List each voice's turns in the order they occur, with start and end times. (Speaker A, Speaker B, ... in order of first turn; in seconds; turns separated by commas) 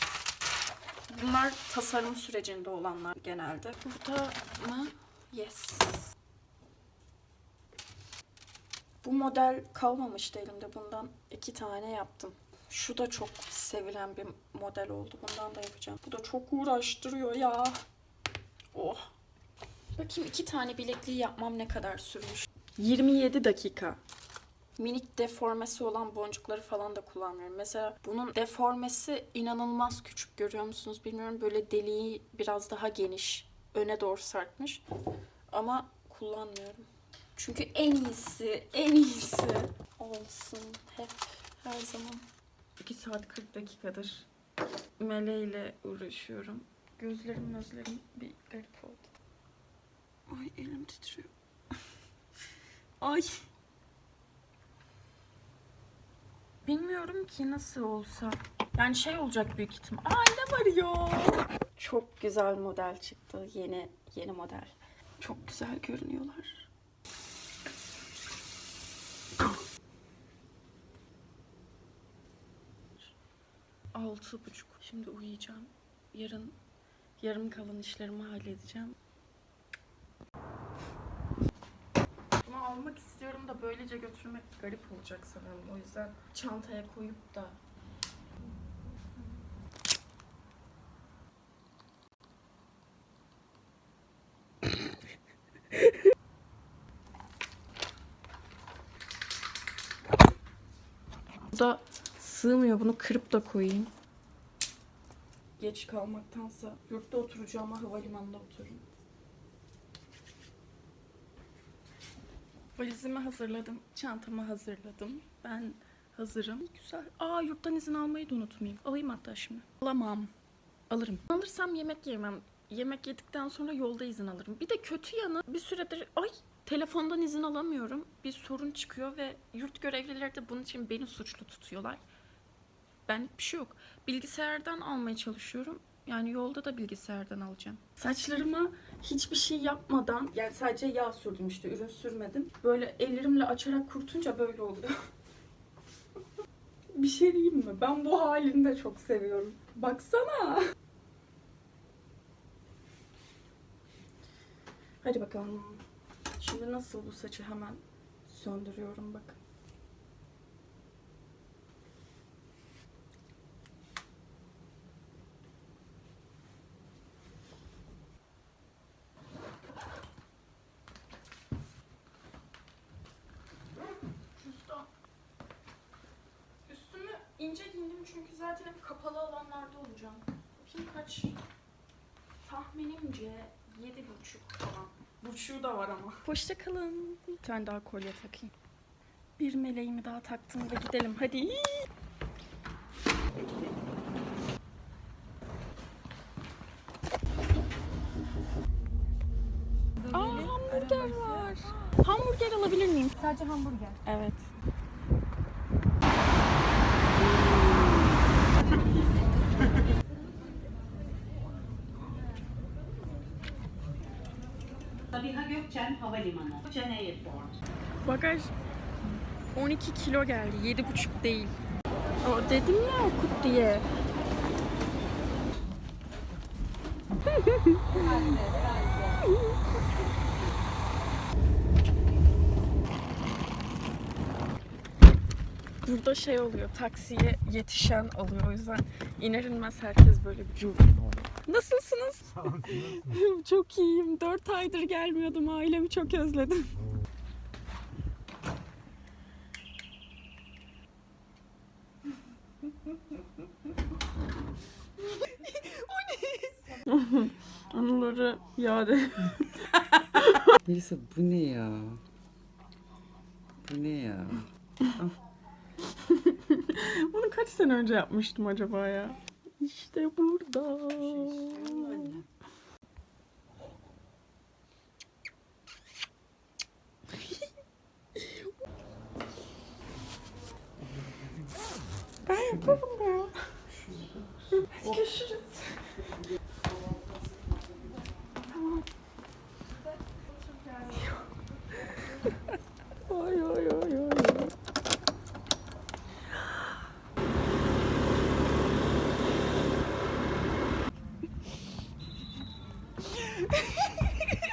Speaker A: 1.1-6.1, Speaker A: 9.0-17.8, Speaker A: 18.7-19.1, Speaker A: 20.0-24.0, Speaker A: 24.8-34.8, Speaker A: 35.5-42.2, Speaker A: 42.8-44.3, Speaker A: 45.0-49.1, Speaker A: 50.3-51.3, Speaker A: 53.0-53.4, Speaker A: 56.6-66.7, Speaker A: 73.9-76.6, Speaker A: 77.2-79.0, Speaker A: 82.4-87.6, Speaker A: 101.5-103.9, Speaker A: 105.6-108.8, Speaker A: 112.8-120.3, Speaker A: 120.9-132.0, Speaker A: 133.1-145.0, Speaker A: 146.9-150.7, Speaker A: 155.0-155.8, Speaker A: 156.4-159.4, Speaker A: 174.4-174.9, Speaker A: 176.7-181.4, Speaker A: 182.4-188.5, Speaker A: 189.4-191.9, Speaker B: 200.0-201.6, Speaker A: 200.1-203.2, Speaker B: 203.2-204.0, Speaker A: 204.1-204.5, Speaker A: 207.2-208.2, Speaker B: 215.1-217.6, Speaker A: 218.0-218.5, Speaker A: 219.5-221.6, Speaker A: 222.2-223.9, Speaker A: 227.3-228.4, Speaker B: 227.9-229.2, Speaker A: 235.8-246.8, Speaker A: 255.2-256.3, Speaker A: 256.9-260.5, Speaker C: 260.6-262.0, Speaker C: 263.6-264.5, Speaker A: 266.0-272.2, Speaker B: 271.3-272.2, Speaker A: 278.2-278.5, Speaker A: 282.3-283.4, Speaker A: 284.6-286.3, Speaker A: 288.5-288.9, Speaker A: 290.7-292.5, Speaker A: 293.1-294.5, Speaker A: 303.4-303.8